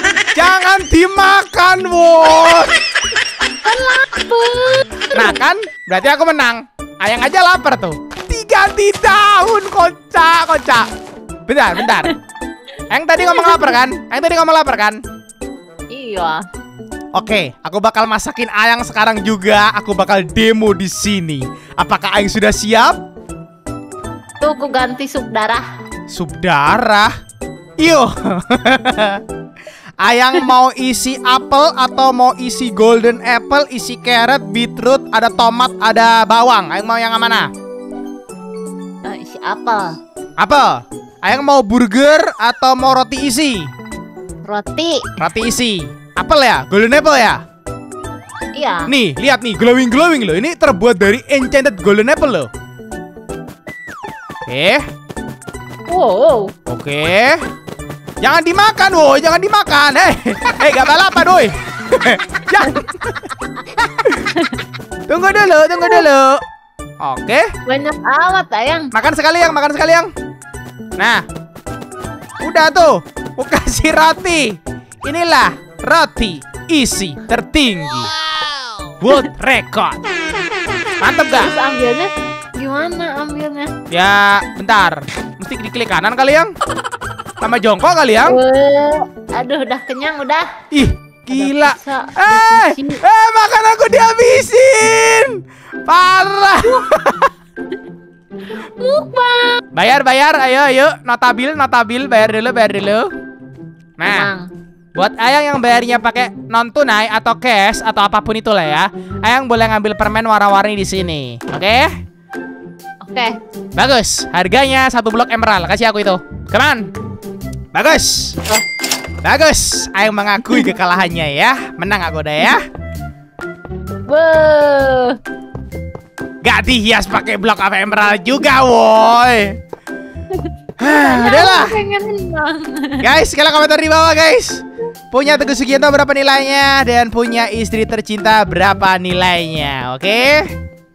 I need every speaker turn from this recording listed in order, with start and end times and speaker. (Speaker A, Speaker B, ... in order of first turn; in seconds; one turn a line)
Speaker A: 0.3-2.8
Speaker B: 3.5-5.4
Speaker A: 5.1-10.9
Speaker A: 11.5-12.1
Speaker A: 12.9-15.0
Speaker B: 13.2-13.8
Speaker B: 15.9-16.4
Speaker A: 17.1-23.0
Speaker B: 24.4-25.6
Speaker A: 26.1-27.1
Speaker A: 27.8-29.2
Speaker A: 30.0-37.5
Speaker B: 39.0-39.9
Speaker A: 40.4-43.7
Speaker B: 44.4-45.1
Speaker A: 45.2-47.4
Speaker B: 48.5-48.9
Speaker A: 48.9-52.5
Speaker A: 54.5-54.8
Speaker B: 55.9-56.5
Speaker A: 56.7-57.4
Speaker A: 58.2-63.2
Speaker B: 64.2-64.6
Speaker A: 65.1-66.4
Speaker A: 67.0-67.5
Speaker B: 67.7-68.9
Speaker A: 68.9-70.1
Speaker A: 71.0-71.2
Speaker A: 72.4-78.1
Speaker A: 79.0-80.0
Speaker A: 81.0-81.5
Speaker B: 81.3-83.7
Speaker A: 83.9-86.5
Speaker A: 87.4-88.4
Speaker B: 88.2-90.5
Speaker A: 90.7-97.3
Speaker B: 91.3-93.0
Speaker B: 98.6-99.6
Speaker A: 99.7-103.1
Speaker A: 104.0-104.3
Speaker B: 104.0-104.5
Speaker A: 105.0-111.9
Speaker B: 113.0-113.3
Speaker A: 113.8-116.9
Speaker A: 117.7-118.4
Speaker A: 119.2-122.6
Speaker B: 124.1-125.2
Speaker A: 126.4-129.6
Speaker B: 130.3-133.1
Speaker A: 130.8-131.8
Speaker A: 133.0-140.5